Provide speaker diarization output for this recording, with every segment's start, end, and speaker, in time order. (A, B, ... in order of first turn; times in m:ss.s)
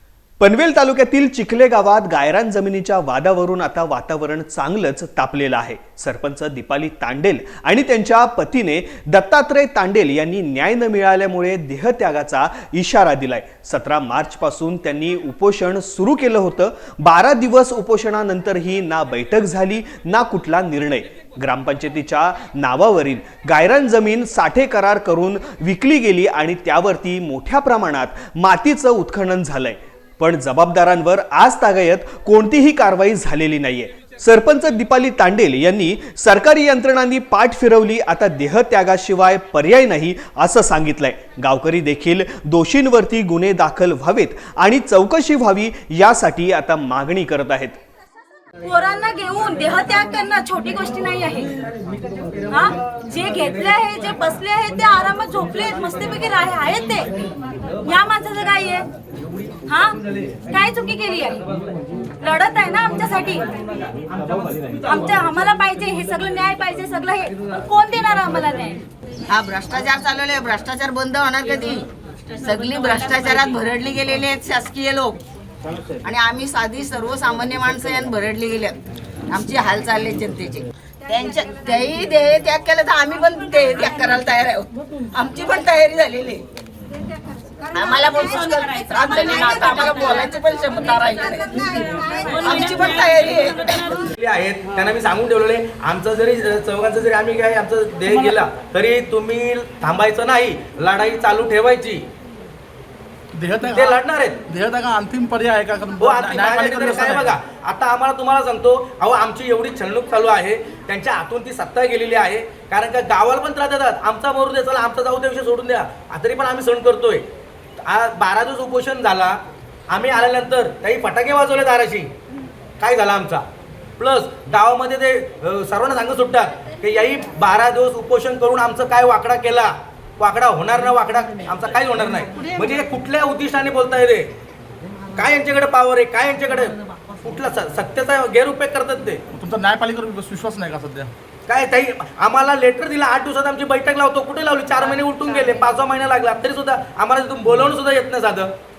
0:00.4-0:47.8 A
0:48.6-0:51.5 B
0:52.5-0:57.1 B
0:57.8-0:58.8 B
0:59.7-1:00.0 B
1:00.5-1:01.4 B
1:02.2-1:03.4 B
1:04.8-1:08.8 B
1:09.3-1:15.2 C
1:16.0-1:26.4 C
1:27.7-1:31.8 C
1:29.1-1:30.0 B
1:32.1-1:32.8 B
1:32.4-1:34.0 C
1:34.1-1:42.0 D
1:38.1-1:38.4 E
1:43.3-1:47.3 E
1:43.7-1:44.4 D
1:46.0-1:57.2 D
1:57.8-2:02.1 D
2:02.8-2:03.4 D
2:04.0-2:14.3 D
2:15.1-2:19.2 D
2:19.3-2:21.1 E
2:21.5-2:28.5 D